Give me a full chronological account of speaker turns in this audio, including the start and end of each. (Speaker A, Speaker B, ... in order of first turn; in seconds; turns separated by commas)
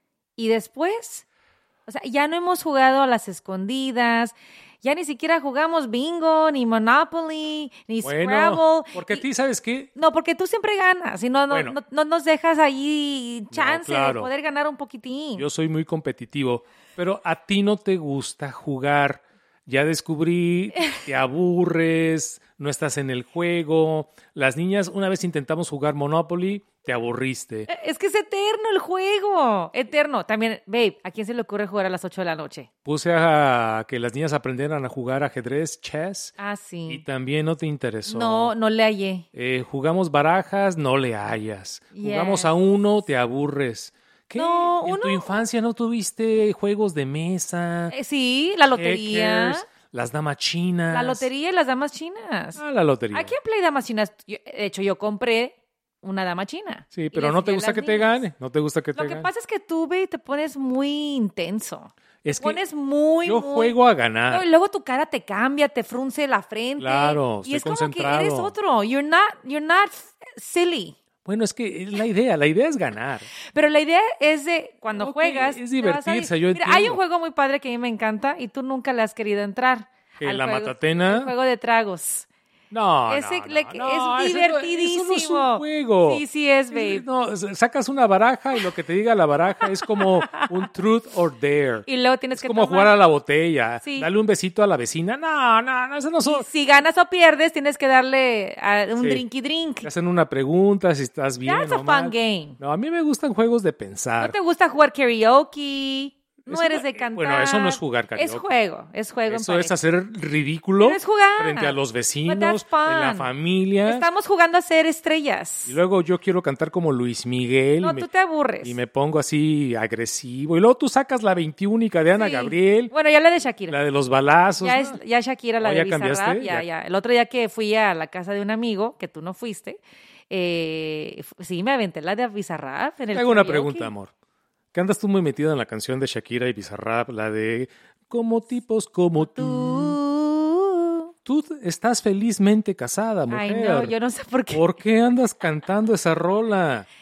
Speaker A: 0.4-1.2, Speaker A: 1.9-9.2, Speaker B: 8.0-9.9, Speaker A: 10.0-15.5, Speaker B: 11.5-11.8, Speaker B: 13.5-14.3, Speaker B: 15.4-27.7, Speaker A: 27.7-32.7, Speaker B: 32.9-36.4, Speaker A: 36.4-37.0, Speaker B: 36.9-38.5, Speaker A: 38.1-39.3, Speaker B: 39.3-47.9, Speaker A: 41.9-42.5, Speaker A: 44.4-45.4, Speaker A: 47.9-49.7, Speaker B: 48.7-51.3, Speaker A: 50.9-52.6, Speaker B: 52.6-53.4, Speaker A: 53.1-58.2, Speaker B: 56.9-59.3, Speaker A: 58.9-63.8, Speaker B: 62.2-62.6, Speaker B: 63.2-64.4, Speaker A: 64.3-71.0, Speaker B: 66.8-68.5, Speaker B: 71.2-73.3, Speaker A: 73.4-82.3, Speaker B: 74.9-77.0, Speaker B: 80.2-81.3, Speaker B: 82.7-96.5, Speaker A: 83.1-87.0, Speaker A: 89.6-90.5, Speaker A: 91.9-93.0, Speaker A: 93.8-94.1, Speaker A: 96.2-99.9, Speaker B: 99.0-99.2, Speaker B: 99.8-104.4, Speaker A: 101.4-102.6, Speaker A: 104.2-109.8, Speaker B: 106.5-108.5, Speaker B: 109.3-114.1, Speaker A: 110.8-113.3, Speaker A: 113.8-115.8, Speaker B: 115.7-118.1, Speaker A: 117.8-118.8, Speaker B: 118.6-122.9, Speaker A: 122.2-123.8, Speaker B: 123.7-125.0, Speaker A: 124.6-133.9, Speaker B: 125.6-126.7, Speaker B: 133.1-134.1, Speaker B: 134.7-140.0, Speaker A: 139.2-141.1, Speaker B: 141.3-143.9, Speaker A: 143.3-144.8, Speaker B: 144.5-146.9